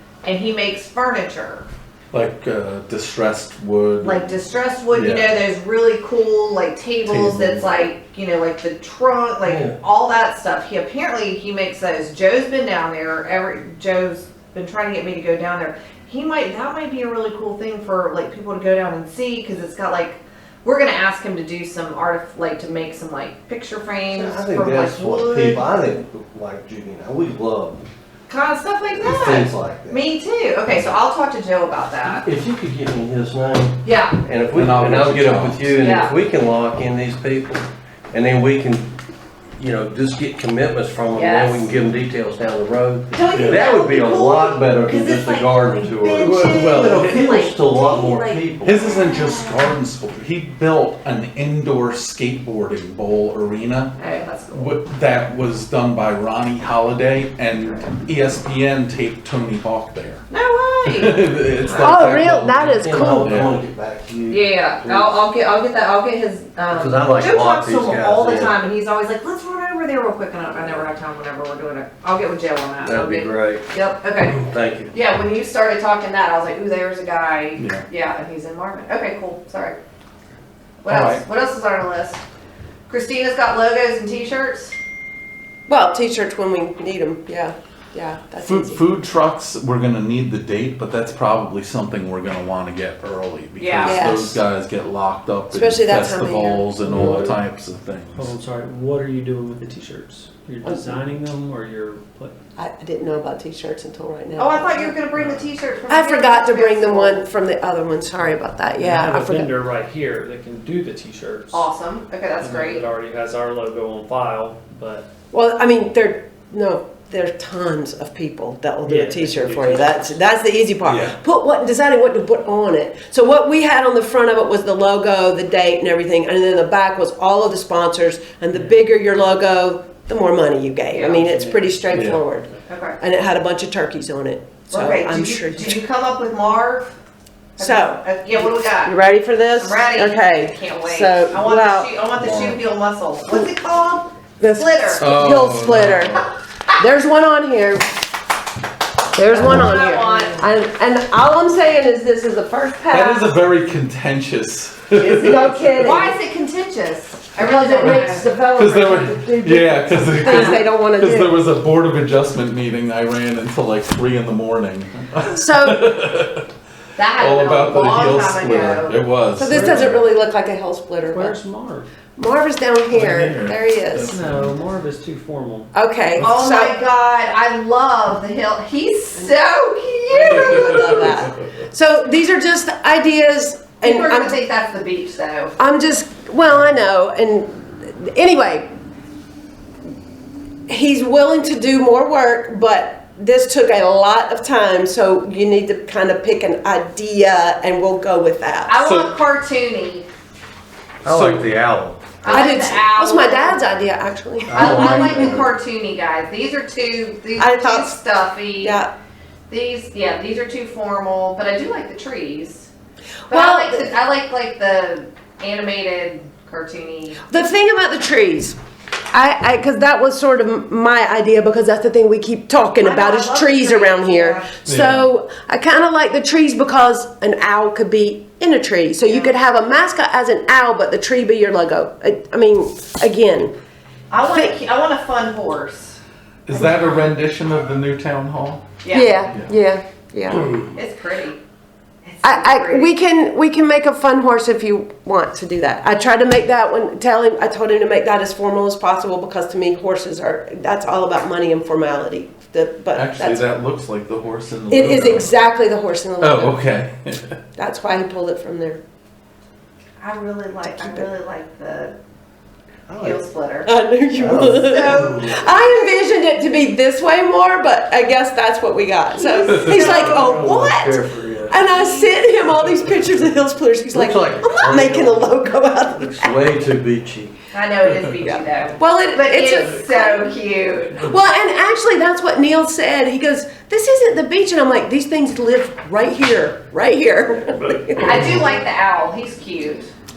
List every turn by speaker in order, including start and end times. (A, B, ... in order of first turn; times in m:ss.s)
0:00.2-0:01.7 A
0:02.1-0:04.4 B
0:04.0-0:25.7 A
0:04.9-0:05.4 B
0:07.1-0:07.9 B
0:09.4-0:09.8 C
0:24.1-0:27.8 C
0:28.3-0:32.3 A
0:28.9-0:30.0 C
0:32.0-0:38.9 C
0:33.8-0:34.2 A
0:34.5-0:35.8 B
0:35.8-0:36.1 A
0:39.6-0:48.8 C
0:41.1-0:41.7 A
0:43.1-0:49.8 A
0:43.3-0:43.6 B
0:46.2-0:47.4 B
0:48.6-0:54.0 B
0:54.0-0:54.8 A
0:54.5-1:00.2 B
0:57.6-0:57.8 A
1:00.3-1:01.2 A
1:00.8-1:03.6 B
1:01.7-1:03.3 D
1:02.8-1:05.2 C
1:04.3-1:14.4 A
1:06.7-1:08.6 C
1:10.6-1:10.8 C
1:12.8-1:13.6 C
1:14.2-1:14.9 C
1:14.9-1:19.8 A
1:17.6-1:17.9 B
1:20.8-1:22.2 A
1:20.9-1:21.2 B
1:22.9-1:24.8 A
1:25.7-1:28.9 D
1:28.4-1:38.3 B
1:33.6-1:34.0 A
1:33.8-1:34.4 D
1:35.5-1:37.3 D
1:36.8-1:37.4 E
1:38.1-1:42.4 E
1:40.6-1:41.0 D
1:42.6-1:45.0 D
1:44.4-1:47.2 A
1:45.2-1:45.5 E
1:45.9-1:49.5 D
1:48.8-1:51.7 E
1:51.5-1:52.8 A
1:52.4-1:55.1 E
1:55.3-2:15.8 D
1:58.8-2:00.2 E
2:00.9-2:01.2 B
2:10.9-2:11.3 A
2:11.1-2:12.0 E
2:11.9-2:12.2 B
2:12.7-2:13.0 A
2:14.7-2:17.0 A
2:17.6-2:19.0 A
2:17.6-2:21.9 D
2:19.6-2:25.1 A
2:22.2-2:22.6 B
2:24.4-2:26.2 D
2:25.0-2:26.2 B
2:26.8-2:28.0 D
2:29.1-2:33.4 D
2:29.3-2:30.5 A
2:32.9-2:35.7 B
2:35.0-2:36.2 D
2:35.8-2:38.3 A
2:37.4-2:41.4 D
2:37.8-2:46.5 B
2:40.2-2:40.6 A
2:45.3-2:46.0 D
2:47.0-2:49.0 A
2:47.1-2:50.0 B
2:49.4-2:51.4 D
2:51.1-2:51.9 E
2:52.2-2:54.2 D
2:52.9-2:54.6 B
2:54.1-2:55.7 E
2:55.7-2:56.8 D
2:56.2-3:00.9 A
3:00.1-3:01.5 B
3:00.1-3:04.4 D
3:03.8-3:05.6 A
3:05.6-3:08.7 D
3:10.7-3:18.8 D
3:18.7-3:20.1 A
3:18.8-3:19.2 B
3:21.0-3:22.0 C
3:21.0-3:21.6 B
3:22.2-3:23.7 A
3:22.3-3:25.3 D
3:24.5-3:25.5 C
3:24.5-3:28.8 A
3:27.4-3:28.0 D
3:28.6-3:28.9 D
3:29.5-3:32.7 A
3:33.3-3:33.9 D
3:33.3-3:37.2 A
3:37.3-3:38.6 D
3:39.1-3:53.5 D
3:42.8-3:44.5 A
3:44.7-3:45.1 B
3:49.0-3:49.4 A
3:54.1-3:56.0 A
3:54.2-3:54.6 D
3:56.5-3:59.6 B
3:56.5-3:56.9 A
3:58.8-3:59.3 A
3:58.9-4:00.5 D
4:00.7-4:01.4 A
4:02.0-4:02.9 A
4:02.2-4:13.5 D
4:13.0-4:15.3 B
4:14.7-4:16.6 D
4:16.2-4:17.4 B
4:17.6-4:18.8 D
4:20.0-4:22.0 A
4:20.8-4:21.1 D
4:22.9-4:23.2 C
4:23.0-4:23.7 A
4:23.6-4:36.4 D
4:24.2-4:25.4 C
4:24.6-4:26.1 A
4:29.2-4:30.5 A
4:29.6-4:31.6 C
4:31.6-4:32.2 A
4:33.9-4:35.4 C
4:36.0-4:37.4 C
4:37.5-4:41.1 A
4:38.8-4:40.3 D
4:41.0-4:48.5 D
4:47.3-4:48.5 C
4:48.0-4:49.9 A